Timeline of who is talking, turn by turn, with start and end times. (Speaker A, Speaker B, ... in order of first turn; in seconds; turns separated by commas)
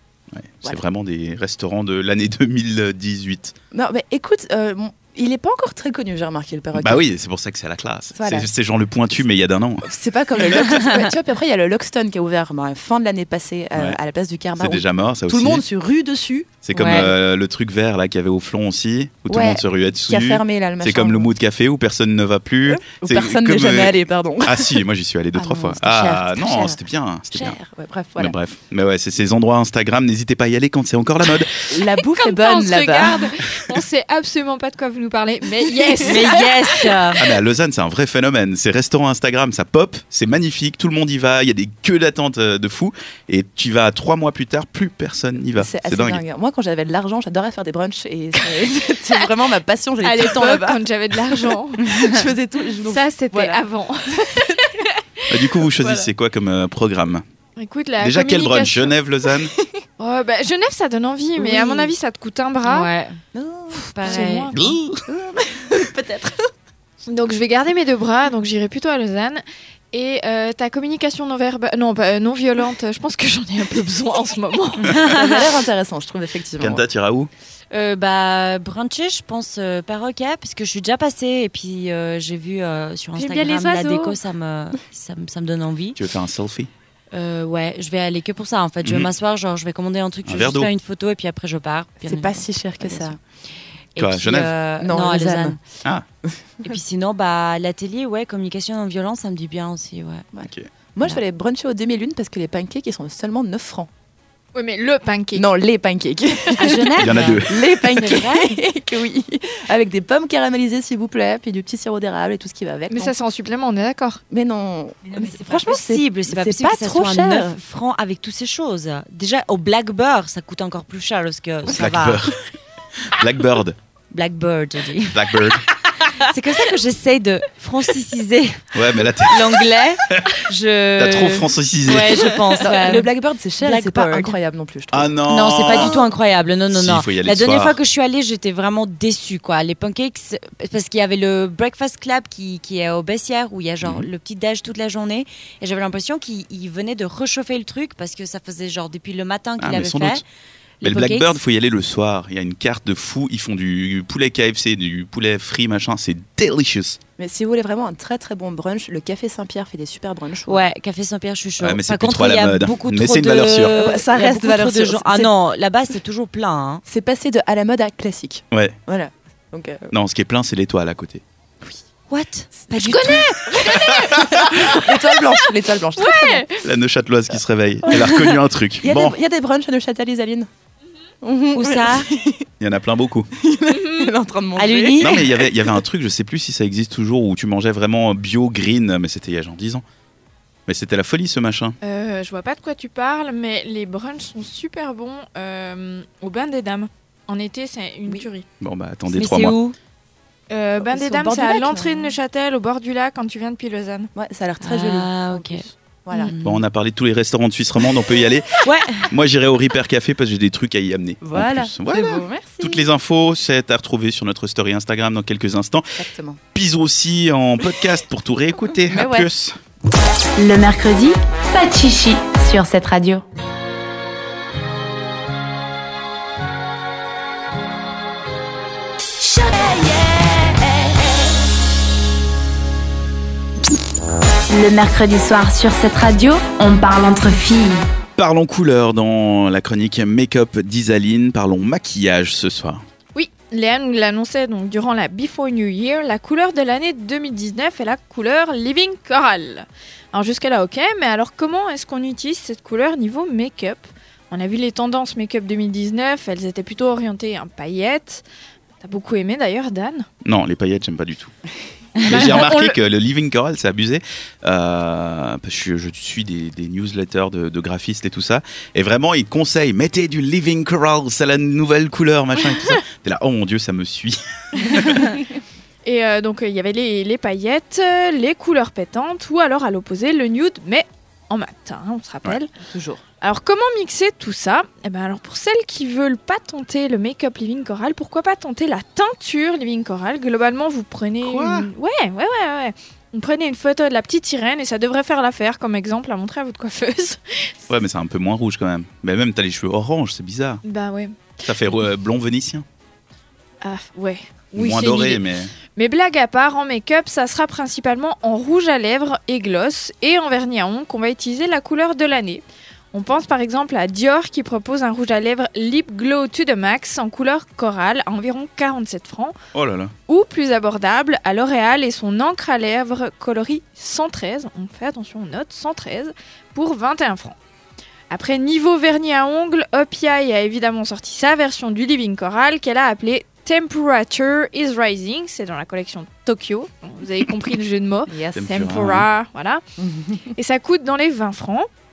Speaker A: 0.3-3.5, Speaker B: 3.7-7.0, Speaker A: 6.8-9.9, Speaker B: 8.1-8.5, Speaker B: 9.8-16.8, Speaker A: 14.6-15.6, Speaker A: 16.6-27.6, Speaker C: 16.8-17.1, Speaker B: 19.3-21.3, Speaker B: 22.7-24.8, Speaker B: 25.3-26.8, Speaker B: 27.3-28.3, Speaker A: 28.2-31.7, Speaker B: 31.7-33.3, Speaker D: 32.1-37.0, Speaker C: 36.0-37.2, Speaker A: 37.2-46.2, Speaker B: 45.5-54.6, Speaker D: 50.0-52.1, Speaker D: 52.9-55.3, Speaker A: 55.3-57.2, Speaker D: 57.6-58.9, Speaker A: 58.0-59.5, Speaker D: 60.0-62.9, Speaker B: 61.4-61.9, Speaker C: 62.6-63.2, Speaker B: 63.3-64.4, Speaker C: 63.7-64.6, Speaker D: 64.0-64.6, Speaker A: 64.5-65.0, Speaker B: 65.0-66.5, Speaker D: 67.1-75.1, Speaker C: 74.9-75.4, Speaker B: 75.0-76.8, Speaker A: 76.6-77.3, Speaker C: 77.7-86.0, Speaker D: 83.2-84.2, Speaker A: 86.0-86.7, Speaker C: 87.1-93.1, Speaker A: 88.8-89.1, Speaker A: 90.2-90.7, Speaker B: 92.0-93.2, Speaker C: 93.9-95.6, Speaker A: 94.0-94.5, Speaker B: 94.8-95.6, Speaker C: 96.6-100.2, Speaker B: 100.3-103.9, Speaker A: 100.4-100.7, Speaker D: 104.5-105.5, Speaker B: 105.3-113.1, Speaker C: 106.6-108.5, Speaker A: 107.0-107.6, Speaker D: 112.9-114.2, Speaker B: 114.3-117.5, Speaker C: 115.1-122.3, Speaker A: 121.6-122.4, Speaker A: 123.0-123.8, Speaker C: 124.1-125.5, Speaker A: 125.1-125.6, Speaker C: 126.1-133.1, Speaker A: 128.7-130.4, Speaker A: 131.0-132.3, Speaker B: 132.6-135.1, Speaker C: 133.6-134.3, Speaker A: 134.9-136.0, Speaker C: 135.3-150.2, Speaker A: 136.7-137.8, Speaker A: 143.8-144.1, Speaker A: 149.6-150.2, Speaker C: 150.8-151.4, Speaker A: 150.8-157.0, Speaker B: 157.2-160.6, Speaker C: 160.5-166.8, Speaker A: 161.6-163.8, Speaker B: 163.7-165.3, Speaker B: 166.8-169.9, Speaker A: 168.5-168.8, Speaker A: 169.9-171.2, Speaker C: 172.1-173.3, Speaker B: 172.7-176.4, Speaker D: 172.9-174.9, Speaker D: 175.9-176.6, Speaker A: 176.6-179.1, Speaker B: 177.9-178.2, Speaker B: 178.8-180.5, Speaker B: 181.2-182.4, Speaker C: 181.5-182.1, Speaker A: 182.6-183.3, Speaker B: 183.4-185.7, Speaker D: 183.7-184.1, Speaker C: 184.6-185.2, Speaker A: 185.0-189.8, Speaker A: 190.7-191.8, Speaker D: 191.8-198.4, Speaker A: 198.6-199.6, Speaker C: 199.1-199.7, Speaker D: 200.5-204.1, Speaker B: 200.8-202.2, Speaker B: 204.1-206.3, Speaker C: 204.6-206.6, Speaker A: 206.4-215.9, Speaker C: 208.6-209.1, Speaker B: 211.2-212.8, Speaker B: 215.9-216.4, Speaker A: 216.5-219.6, Speaker B: 218.9-219.3, Speaker E: 220.4-223.2, Speaker E: 229.3-230.3, Speaker E: 234.5-237.8, Speaker A: 238.2-242.8, Speaker D: 243.1-258.2, Speaker D: 258.8-260.1, Speaker A: 260.2-261.3, Speaker A: 262.0-275.2, Speaker D: 262.1-262.8, Speaker D: 275.8-282.5, Speaker B: 282.6-283.0, Speaker D: 283.2-297.6, Speaker A: 291.2-291.7, Speaker A: 297.7-300.6, Speaker D: 300.6-301.4, Speaker A: 301.4-302.6, Speaker D: 303.6-319.4, Speaker A: 304.5-305.5, Speaker A: 319.5-319.9, Speaker D: 320.1-327.4, Speaker D: 328.1-339.6, Speaker B: 338.1-338.4, Speaker A: 338.3-339.1, Speaker B: 339.8-340.3, Speaker D: 340.3-341.7